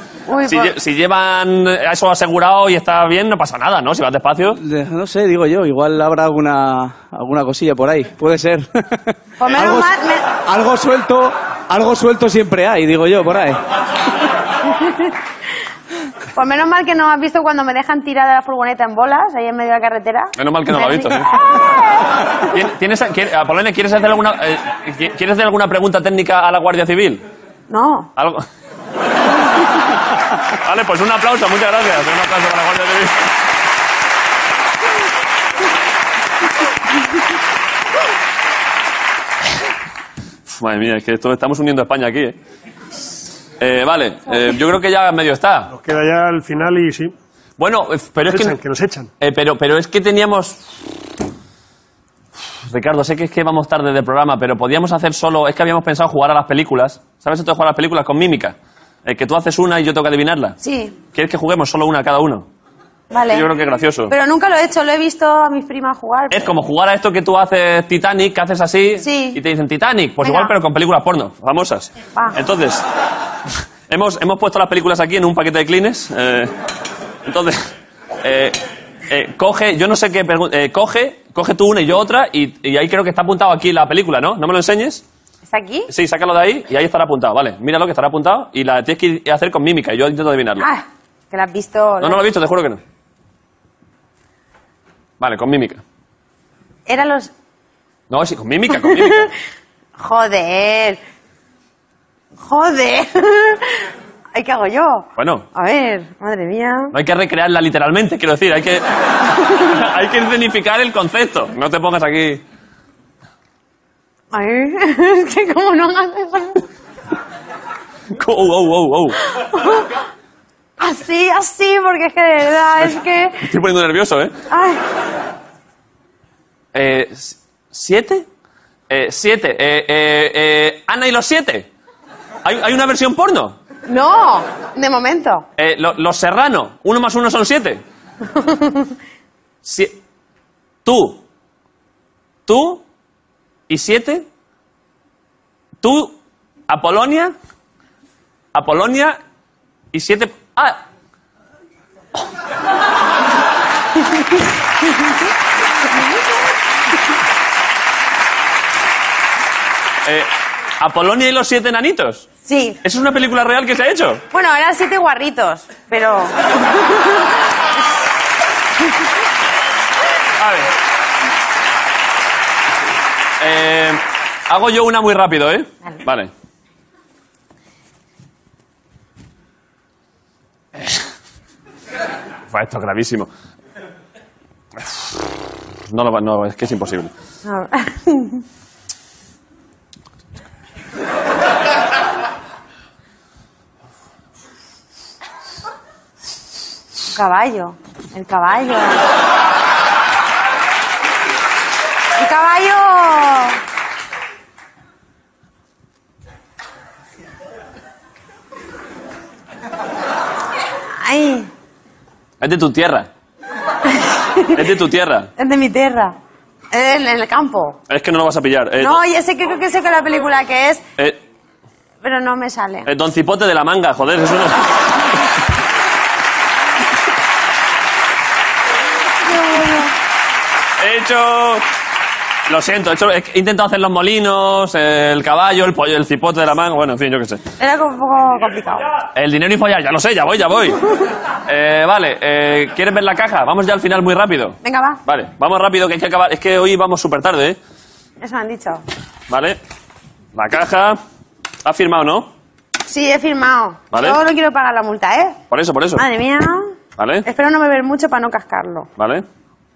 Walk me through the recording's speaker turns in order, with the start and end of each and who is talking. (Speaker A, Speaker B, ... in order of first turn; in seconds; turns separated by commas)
Speaker A: 0.3-0.7, Speaker B: 0.5-4.6, Speaker C: 4.6-13.6, Speaker A: 9.4-10.3, Speaker A: 14.7-15.1, Speaker A: 16.3-22.5, Speaker B: 20.4-21.3, Speaker B: 22.5-27.2, Speaker A: 27.7-28.1, Speaker B: 28.2-28.4, Speaker B: 30.5-33.3, Speaker B: 40.5-42.4, Speaker B: 43.6-45.7, Speaker D: 45.7-47.1, Speaker B: 47.6-48.6, Speaker D: 48.3-49.1, Speaker B: 49.2-50.7, Speaker B: 52.7-60.6, Speaker A: 60.6-61.0, Speaker B: 61.1-62.5, Speaker A: 63.1-63.5, Speaker B: 63.3-64.1, Speaker A: 64.1-66.5, Speaker B: 66.3-72.8, Speaker A: 69.0-69.4, Speaker A: 70.2-70.5, Speaker B: 73.9-76.5, Speaker B: 77.2-77.7, Speaker B: 78.2-78.6, Speaker B: 79.1-85.0, Speaker A: 85.5-85.9, Speaker B: 85.9-90.7, Speaker A: 90.6-92.2, Speaker B: 92.0-92.8, Speaker B: 95.2-95.8, Speaker A: 96.9-97.3, Speaker B: 98.1-99.3, Speaker A: 98.8-99.3, Speaker A: 100.0-101.0, Speaker A: 102.4-106.9, Speaker B: 105.2-105.5, Speaker B: 106.9-108.9, Speaker B: 109.4-112.4, Speaker A: 114.3-116.6, Speaker B: 118.1-119.2, Speaker A: 119.4-119.9, Speaker A: 120.8-123.4, Speaker B: 123.4-124.3, Speaker A: 124.5-124.8, Speaker B: 126.7-128.3, Speaker B: 128.9-131.7, Speaker B: 132.4-133.6, Speaker A: 133.9-135.5, Speaker B: 135.6-137.8, Speaker A: 138.4-138.9, Speaker B: 139.6-140.0, Speaker B: 140.8-141.2, Speaker B: 142.5-142.8, Speaker B: 143.7-144.3, Speaker B: 145.8-147.3, Speaker B: 148.5-149.2, Speaker B: 149.9-150.8, Speaker B: 160.1-162.3, Speaker A: 162.4-162.8, Speaker B: 162.8-164.2, Speaker A: 164.3-167.3, Speaker B: 170.4-170.7, Speaker B: 173.4-176.3, Speaker B: 182.5-183.3, Speaker B: 184.8-185.1, Speaker B: 185.9-187.1, Speaker A: 187.4-188.4, Speaker A: 197.1-199.0, Speaker A: 202.2-203.6, Speaker A: 211.0-211.5, Speaker B: 212.4-213.1, Speaker A: 213.9-214.7, Speaker B: 214.5-215.3, Speaker A: 215.4-216.2, Speaker A: 216.7-217.8, Speaker B: 217.9-219.0, Speaker A: 218.8-220.8, Speaker A: 222.0-222.9, Speaker B: 222.9-225.0, Speaker A: 229.2-229.9, Speaker B: 230.8-231.7, Speaker B: 232.5-237.4, Speaker A: 237.6-238.9, Speaker B: 239.1-240.8, Speaker B: 241.5-247.6, Speaker A: 244.6-245.0, Speaker A: 248.2-248.8, Speaker B: 249.3-249.6, Speaker B: 250.3-251.0, Speaker B: 251.6-252.3, Speaker A: 252.9-255.4, Speaker B: 253.9-254.2, Speaker B: 255.5-256.1, Speaker A: 256.0-256.7, Speaker B: 257.0-257.3, Speaker A: 257.2-258.9, Speaker B: 259.0-259.2